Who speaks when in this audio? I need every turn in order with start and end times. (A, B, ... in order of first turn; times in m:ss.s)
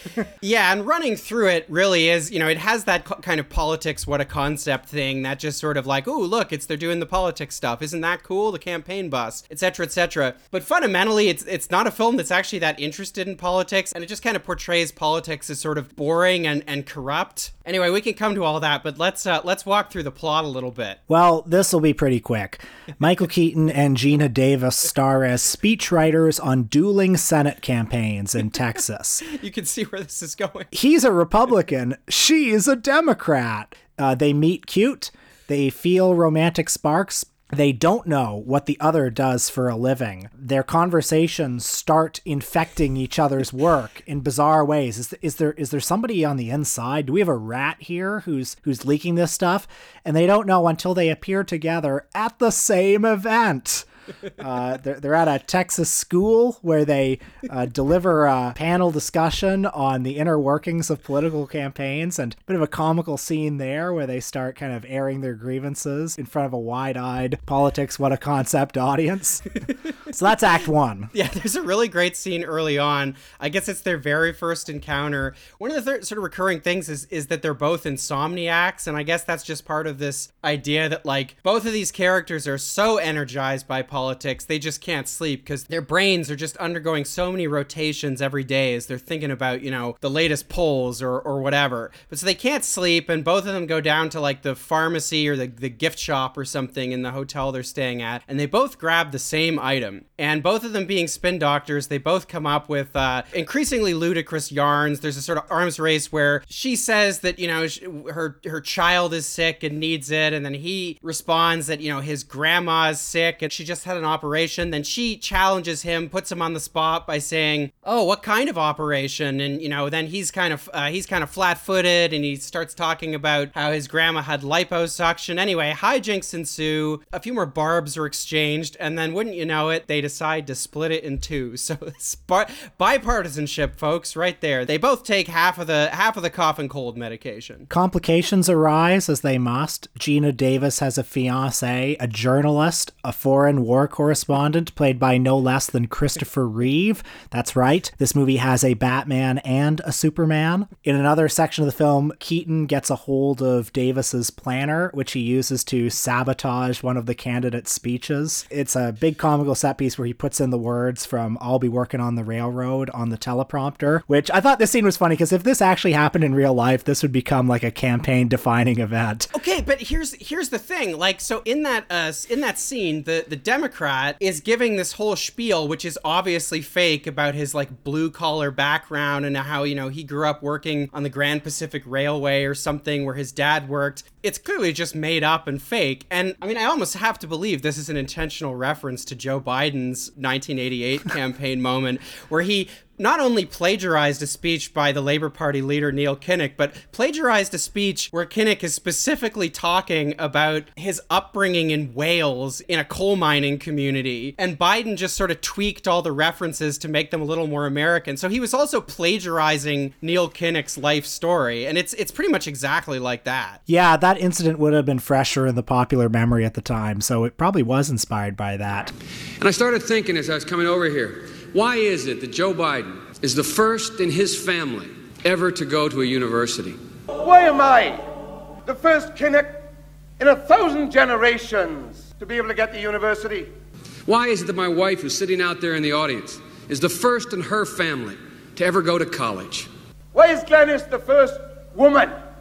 0:00.4-0:21.0 A
0:21.1-0:29.2 B
0:29.2-0:30.7 A
0:30.7-0:53.8 B
0:54.4-1:09.4 B
1:10.1-1:11.1 B
1:11.1-2:17.7 A
2:17.7-2:49.3 B
2:49.3-3:33.6 A
3:33.7-3:38.9 B
3:39.4-3:46.8 C
3:47.2-3:48.0 D
3:48.6-3:49.6 D
3:50.2-3:53.5 D
3:54.0-3:59.7 C
4:00.1-4:02.1 D